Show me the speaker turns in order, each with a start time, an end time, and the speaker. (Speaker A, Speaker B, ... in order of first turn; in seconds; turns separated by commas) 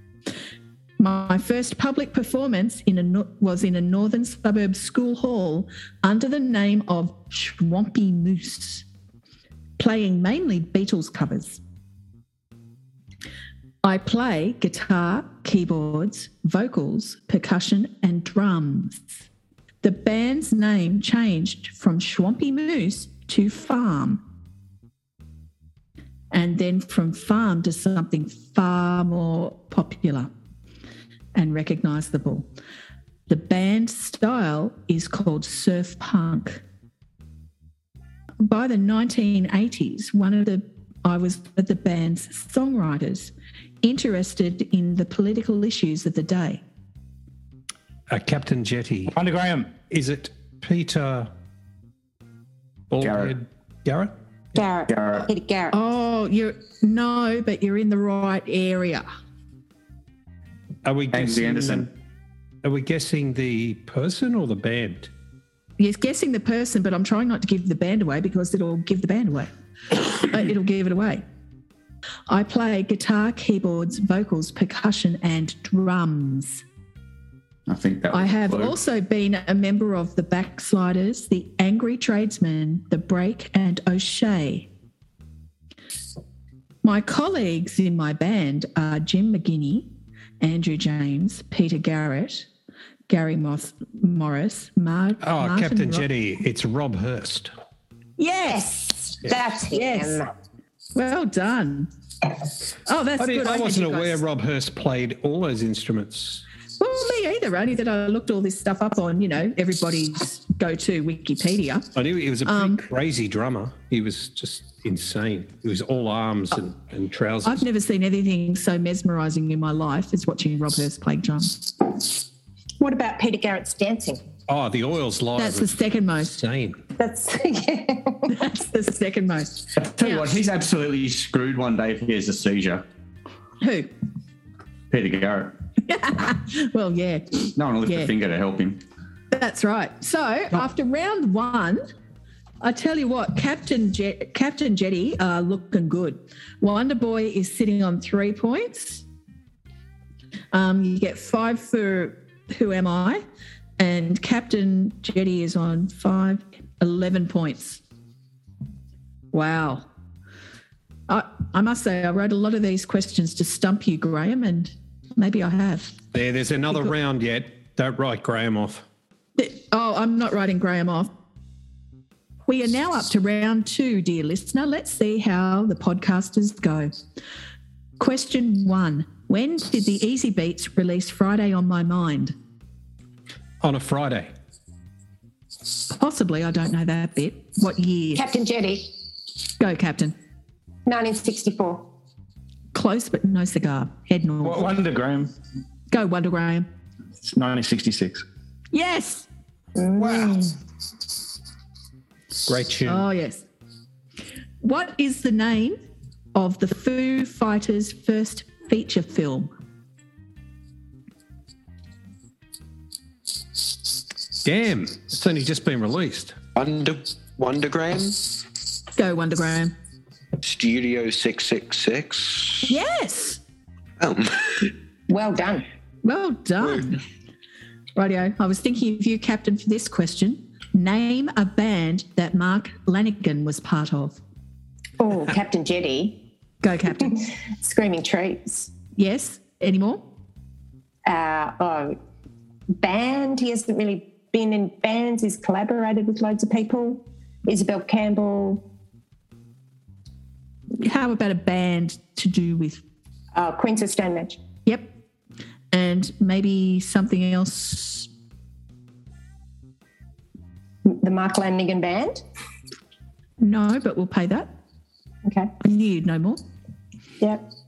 Speaker A: 1.0-8.8, Speaker A: 9.8-11.6, Speaker A: 13.8-19.2, Speaker A: 19.8-24.2, Speaker A: 26.3-30.3, Speaker A: 31.4-32.5, Speaker A: 33.3-36.6, Speaker A: 38.4-43.3, Speaker A: 43.8-46.6, Speaker B: 48.1-49.1, Speaker C: 49.1-49.8, Speaker B: 49.8-51.3, Speaker B: 52.9-54.1, Speaker D: 53.0-53.3, Speaker E: 54.5-55.8, Speaker D: 54.9-55.3, Speaker A: 55.7-59.0, Speaker B: 60.8-61.9, Speaker D: 61.1-61.9, Speaker B: 62.6-65.1, Speaker A: 65.8-71.2, Speaker A: 72.3-76.6, Speaker D: 77.7-78.8, Speaker A: 78.1-84.7, Speaker A: 86.8-89.8, Speaker A: 90.4-92.5, Speaker A: 93.1-96.1, Speaker B: 95.2-97.5, Speaker A: 98.2-98.6, Speaker E: 98.5-100.2, Speaker A: 99.7-100.2, Speaker A: 100.9-101.9, Speaker A: 102.8-104.2, Speaker B: 103.2-106.4, Speaker A: 106.8-111.8, Speaker B: 111.9-117.6, Speaker A: 112.4-112.8, Speaker A: 117.4-121.9, Speaker E: 122.8-124.2, Speaker B: 124.5-126.8, Speaker A: 125.3-126.4, Speaker E: 127.0-128.3, Speaker A: 128.3-130.4, Speaker D: 129.8-132.8, Speaker A: 133.6-133.9, Speaker D: 134.9-135.6, Speaker A: 135.8-138.1, Speaker D: 137.6-138.8, Speaker A: 139.3-141.8, Speaker A: 142.6-149.0, Speaker A: 150.5-153.2, Speaker A: 153.8-157.8, Speaker A: 159.3-159.8, Speaker A: 161.1-165.9, Speaker B: 166.1-168.8, Speaker A: 169.4-171.1, Speaker A: 172.5-176.9, Speaker A: 178.0-182.3, Speaker B: 183.6-184.3, Speaker A: 185.8-188.2, Speaker E: 188.1-188.9, Speaker A: 189.6-190.1, Speaker E: 190.8-191.9, Speaker A: 192.7-194.7, Speaker C: 194.4-195.3, Speaker A: 195.9-196.7, Speaker C: 197.2-198.2, Speaker A: 198.7-199.3, Speaker E: 199.8-200.5, Speaker B: 200.0-200.4, Speaker B: 202.5-203.0, Speaker A: 202.8-203.4, Speaker A: 204.6-205.8, Speaker A: 206.3-209.5, Speaker B: 214.4-216.4, Speaker F: 216.5-218.3, Speaker A: 218.9-219.7, Speaker F: 220.4-222.7, Speaker A: 222.7-223.4, Speaker F: 224.0-224.7, Speaker E: 225.1-225.6, Speaker A: 226.0-227.0, Speaker A: 227.9-234.2, Speaker E: 235.0-236.2, Speaker A: 236.6-237.2, Speaker E: 237.0-238.7, Speaker A: 239.0-240.0, Speaker E: 241.1-241.9, Speaker E: 242.8-248.6, Speaker A: 250.8-252.8, Speaker E: 253.3-254.4, Speaker A: 255.7-258.1, Speaker E: 260.9-262.2, Speaker A: 263.4-264.5, Speaker A: 265.6-266.4